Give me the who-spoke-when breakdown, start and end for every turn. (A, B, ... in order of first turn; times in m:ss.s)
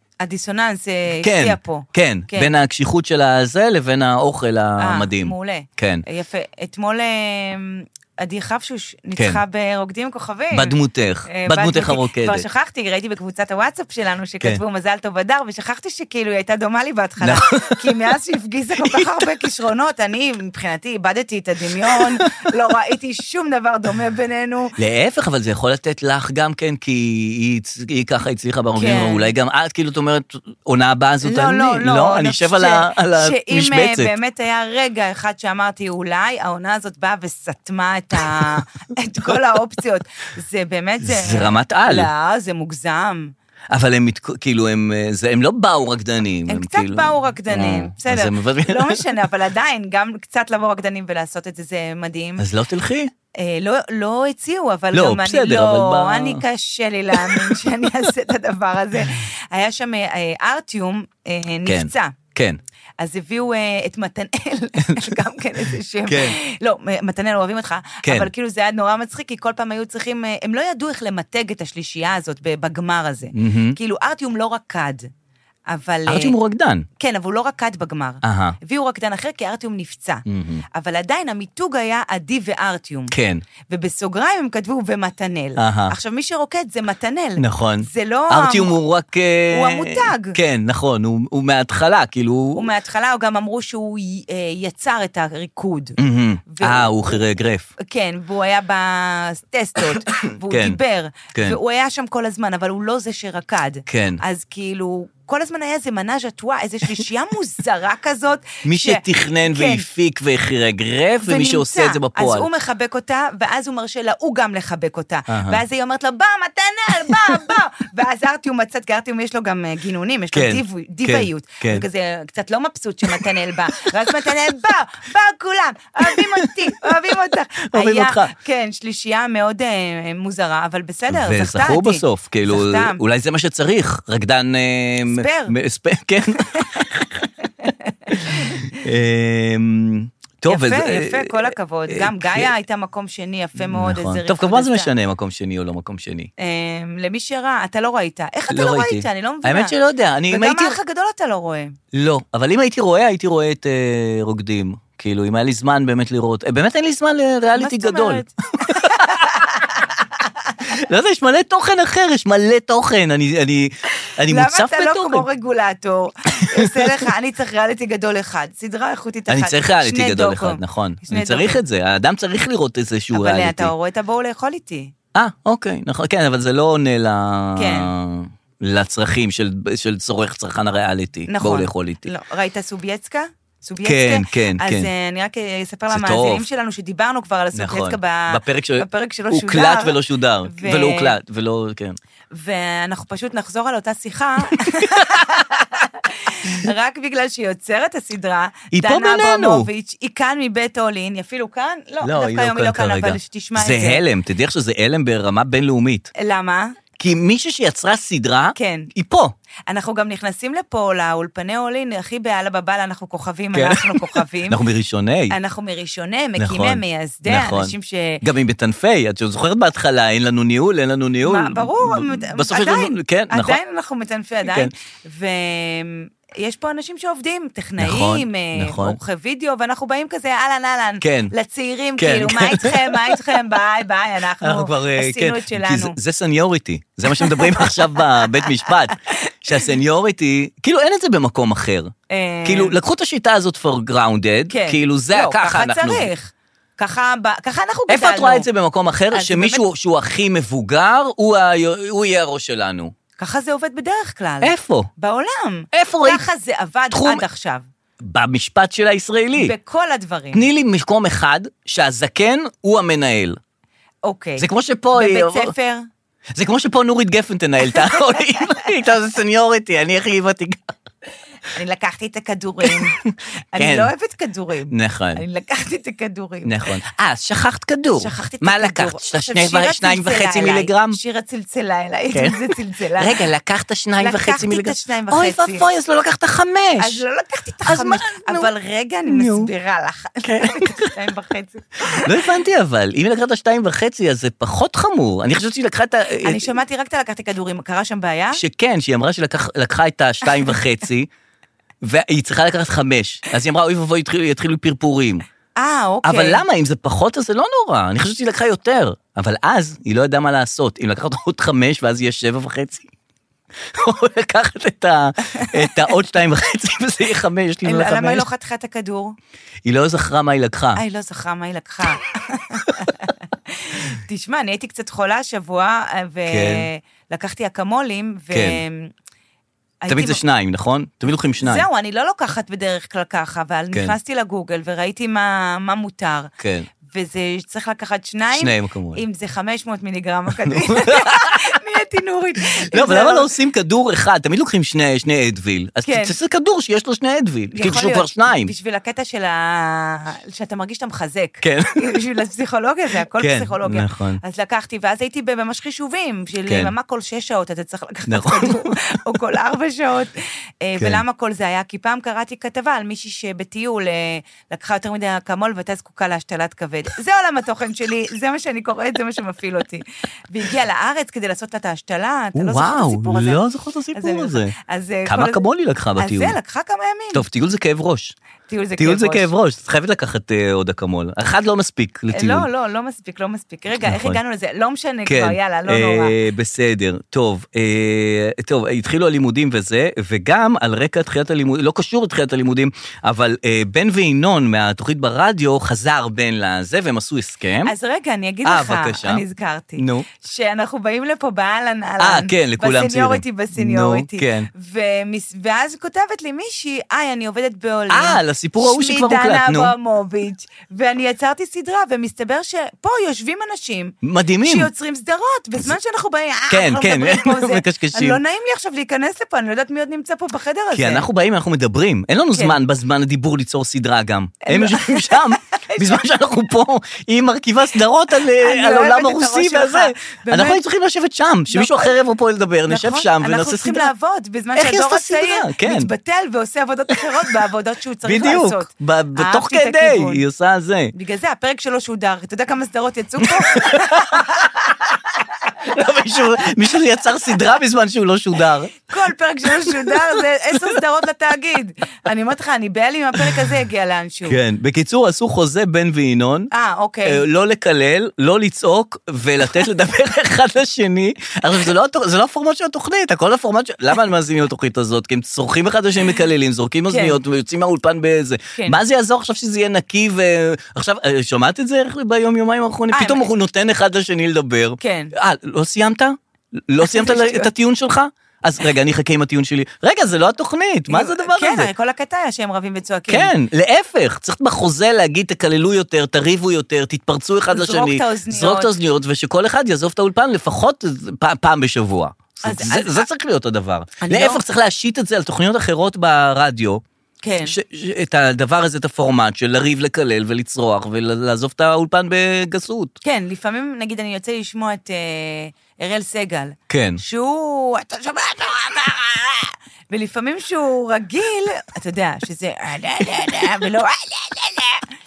0:00.2-0:02.5 A
0:01.2-0:06.0 B
0:04.8-0:10.8 A
0:10.5-0:12.4 B
0:11.3-0:24.7 A
0:17.2-0:17.9 B
0:18.8-0:19.1 B
0:24.8-0:34.1 B
0:28.8-0:29.3 A
0:31.2-0:43.3 A
0:41.0-0:42.1 B
0:43.7-0:49.0 B
0:46.5-0:52.4 A
0:52.4-0:53.1 B
0:53.3-1:02.2 A
0:54.9-0:56.4 B
0:57.2-0:57.5 B
1:01.7-1:02.6 B
1:03.0-1:15.1 A
1:04.8-1:05.2 B
1:06.1-1:06.4 B
1:08.0-1:08.3 B
1:13.3-1:13.8 B
1:15.7-1:16.3 A
1:16.1-1:16.8 B
1:17.0-1:23.1 A
1:18.2-1:18.6 B
1:20.3-1:20.6 B
1:23.1-1:23.4 B
1:23.7-1:28.8 A
1:25.6-1:25.9 B
1:27.4-1:32.7 B
1:29.5-1:30.4 A
1:32.6-1:36.0 A
1:36.0-1:37.7 B
1:36.5-1:37.2 A
1:37.8-1:49.8 A
1:40.1-1:40.8 B
1:43.9-1:44.2 B
1:48.6-1:52.5 B
1:51.2-2:13.0 A
1:55.3-1:55.6 B
2:00.3-2:01.8 B
2:06.1-2:06.9 B
2:07.7-2:08.3 B
2:11.1-2:17.2 B
2:15.1-2:15.5 A
2:16.4-2:16.9 A
2:17.4-2:18.6 A
2:18.1-2:22.5 B
2:20.5-2:24.9 A
2:23.6-2:26.3 B
2:26.4-2:31.8 A
2:28.5-2:30.8 B
2:31.9-2:39.6 B
2:37.5-2:40.5 A
2:40.6-2:45.3 B
2:44.3-2:51.6 A
2:46.3-2:47.0 B
2:49.3-2:53.7 B
2:53.1-2:54.9 A
2:55.1-3:02.1 B
2:57.6-2:57.9 A
3:01.3-3:11.2 A
3:03.8-3:04.9 B
3:05.9-3:06.4 B
3:07.5-3:12.0 B
3:12.3-3:24.0 A
3:14.6-3:15.0 B
3:18.7-3:19.7 B
3:22.0-3:26.1 B
3:26.2-3:26.8 A
3:27.0-3:29.3 B
3:28.6-3:28.9 A
3:29.7-3:34.6 A
3:33.5-3:35.4 B
3:35.3-3:38.2 A
3:36.4-3:43.6 B
3:41.2-3:56.0 A
3:44.4-3:44.7 B
3:47.8-3:49.0 B
3:51.0-3:51.3 B
3:52.0-3:53.2 B
3:54.4-4:01.9 B
3:57.0-3:59.6 A
4:02.1-4:02.8 A
4:02.4-4:06.1 B
4:04.5-4:08.5 A
4:07.9-4:12.9 B
4:09.1-4:09.6 A
4:13.2-4:17.6 A
4:14.4-4:14.9 B
4:15.7-4:16.2 B
4:16.9-4:17.2 B
4:18.0-4:19.5 B
4:19.3-4:20.4 A
4:20.3-4:23.4 B
4:24.0-4:25.9 A
4:24.4-4:25.5 B
4:26.4-4:30.7 B
4:27.7-4:28.5 A
4:31.5-4:33.0 A
4:32.6-4:33.9 B
4:33.5-4:36.5 A
4:34.7-4:35.2 B
4:36.4-4:41.0 B
4:38.0-4:43.2 A
4:42.1-4:47.0 B
4:44.0-4:45.7 A
4:46.8-4:52.3 A
4:47.6-4:48.5 B
4:49.1-4:49.5 B
4:50.2-4:50.9 B
4:52.0-4:56.5 B
4:56.2-4:58.4 A
4:58.3-5:01.1 B
5:01.8-5:05.2 B
5:05.6-5:06.4 A
5:06.0-5:12.9 B
5:13.7-5:18.3 B
5:15.4-5:15.7 A
5:17.6-5:19.2 A
5:19.6-5:20.8 B
5:20.8-5:28.9 A
5:26.3-5:26.7 B
5:28.3-5:28.6 B
5:29.8-5:30.2 A
5:29.9-5:31.6 B
5:31.4-5:36.3 A
5:36.4-5:36.7 B
5:36.8-5:43.3 A
5:38.3-5:39.0 B
5:40.4-5:41.4 B
5:42.7-5:48.5 B
5:45.8-5:46.1 A
5:47.5-6:13.4 A
5:51.4-5:51.9 B
5:53.2-5:54.2 B
5:56.5-5:56.7 B
5:58.1-5:58.8 B
6:00.8-6:01.0 B
6:12.3-6:14.5 B
6:13.9-6:15.4 A
6:15.0-6:16.4 B
6:16.0-6:17.2 A
6:17.1-6:18.2 B
6:18.5-6:19.3 A
6:18.8-6:22.5 B
6:22.1-6:26.1 A
6:23.7-6:24.2 B
6:25.0-6:37.7 B
6:37.6-7:01.1 A
6:38.4-6:39.2 B
6:39.8-6:40.1 B
6:42.0-6:44.5 B
6:47.9-6:49.7 B
6:54.0-6:54.7 B
6:56.5-6:58.2 B
7:00.7-7:13.9 B
7:02.3-7:02.6 A
7:04.4-7:06.1 A
7:08.4-7:10.6 A
7:11.5-7:11.9 A
7:12.7-7:20.2 A
7:14.5-7:15.9 B
7:18.0-7:20.9 B
7:20.9-7:25.8 A
7:23.2-7:24.2 B
7:25.6-7:28.8 B
7:26.3-7:26.7 A
7:28.8-7:34.4 A
7:29.6-7:30.2 B
7:34.2-7:36.5 B
7:36.5-7:37.2 A
7:37.0-8:01.7 B
7:46.9-7:47.2 A
7:48.5-7:48.8 A
7:52.9-7:53.2 A
7:54.8-7:55.1 A
7:56.8-7:57.5 A
8:00.9-8:03.3 A
8:03.1-8:16.8 B
8:07.5-8:08.7 A
8:12.4-8:13.1 A
8:14.0-8:14.4 A
8:17.2-8:17.6 A
8:17.4-8:22.9 B
8:23.0-8:34.8 A
8:26.7-8:27.0 B